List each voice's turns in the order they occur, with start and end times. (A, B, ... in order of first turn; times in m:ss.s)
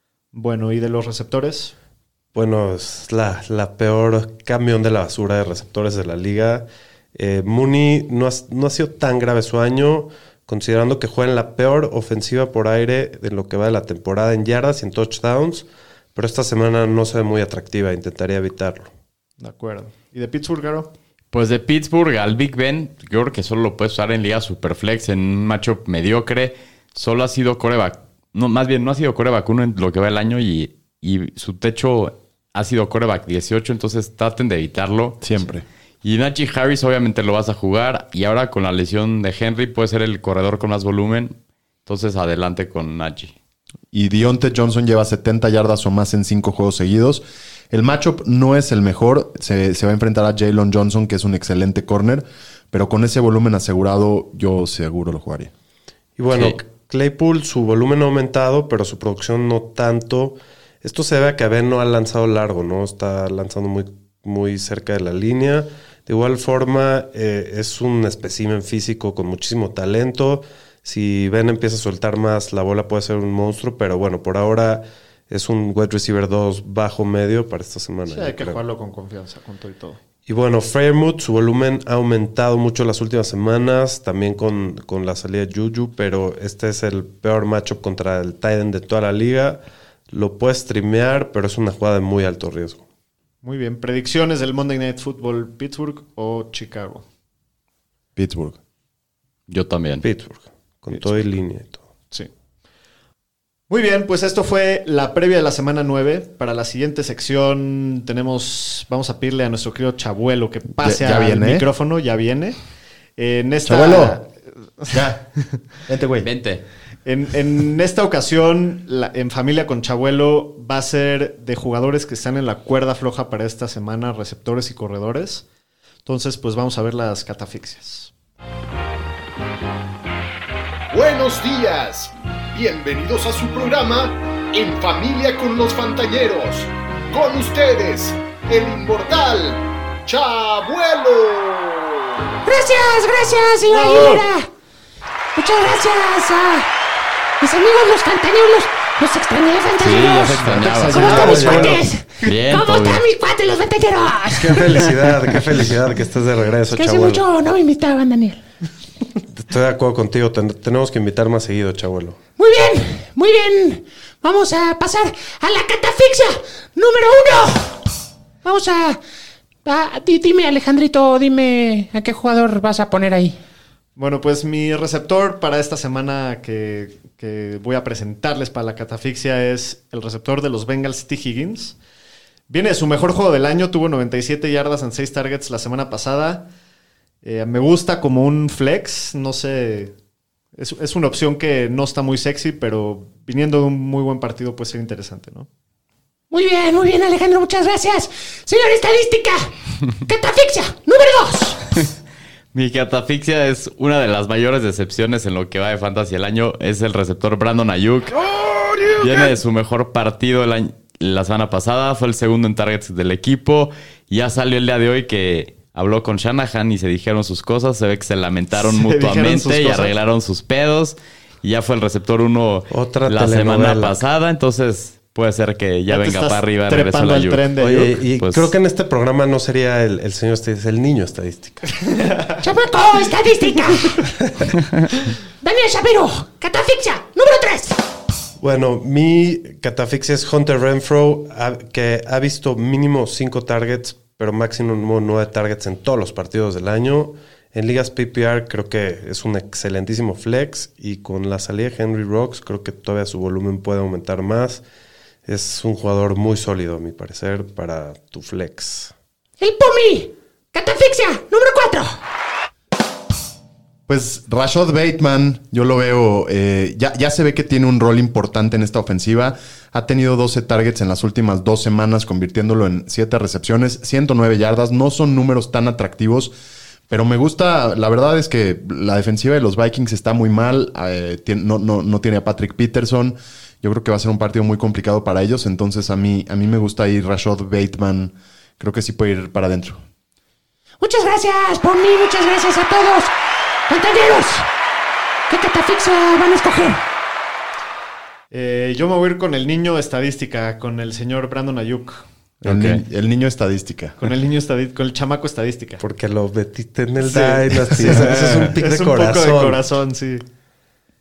0:00.3-0:01.7 A
0:02.3-0:18.9 B
0:19.4-0:20.9 A
0:21.3-0:35.4 C
0:35.2-0:35.6 D
0:36.0-0:43.3 C
0:43.9-0:55.5 D
0:56.2-1:18.6 B
0:56.3-0:56.6 C
1:18.1-1:20.0 A
1:20.2-1:32.8 B
1:33.4-1:37.0 A
1:38.2-1:38.6 D
1:39.5-1:40.0 C
1:40.0-1:41.8 B
1:40.9-1:41.2 A
1:43.7-1:52.6 A
1:50.8-1:51.6 D
1:53.2-1:54.3 A
1:53.6-1:54.2 D
1:54.9-1:55.3 D
1:55.8-1:56.3 D
1:56.2-1:56.6 C
1:57.0-2:05.4 A
2:06.0-2:08.1 A
2:10.9-2:22.3 E
2:22.4-2:24.5 F
2:23.7-2:24.2 A
2:25.3-2:26.7 F
2:27.4-2:34.7 F
2:29.8-2:31.4 C
2:30.4-2:31.8 A
2:31.0-2:31.8 B
2:32.2-2:33.0 C
2:34.3-2:37.2 B
2:36.7-2:38.4 F
2:39.4-2:42.2 B
2:42.4-2:47.8 F
2:48.4-2:49.0 F
2:49.6-2:53.4 F
2:54.0-3:01.8 A
3:02.5-3:06.5 A
3:07.2-3:09.9 A
3:10.6-3:15.5 A
3:16.3-3:19.5 F
3:20.0-3:21.6 F
3:22.5-3:28.2 C
3:28.9-3:47.5 C
3:38.6-3:39.9 A
3:42.7-3:44.0 B
3:45.9-3:47.9 A
3:47.6-3:51.8 B
3:48.0-3:48.5 C
3:52.4-3:54.0 F
3:55.4-3:57.8 F
3:58.4-4:14.6 B
4:15.2-4:18.9 B
4:19.4-4:22.0 F
4:23.9-4:36.3 D
4:36.9-4:49.8 D
4:50.8-4:53.1 F
4:53.7-4:54.5 F
4:55.3-4:56.8 F
4:58.3-5:02.0 A
5:02.4-5:04.0 D
5:02.4-5:02.8 C
5:04.0-5:05.8 A
5:05.8-5:09.6 B
5:07.1-5:10.2 A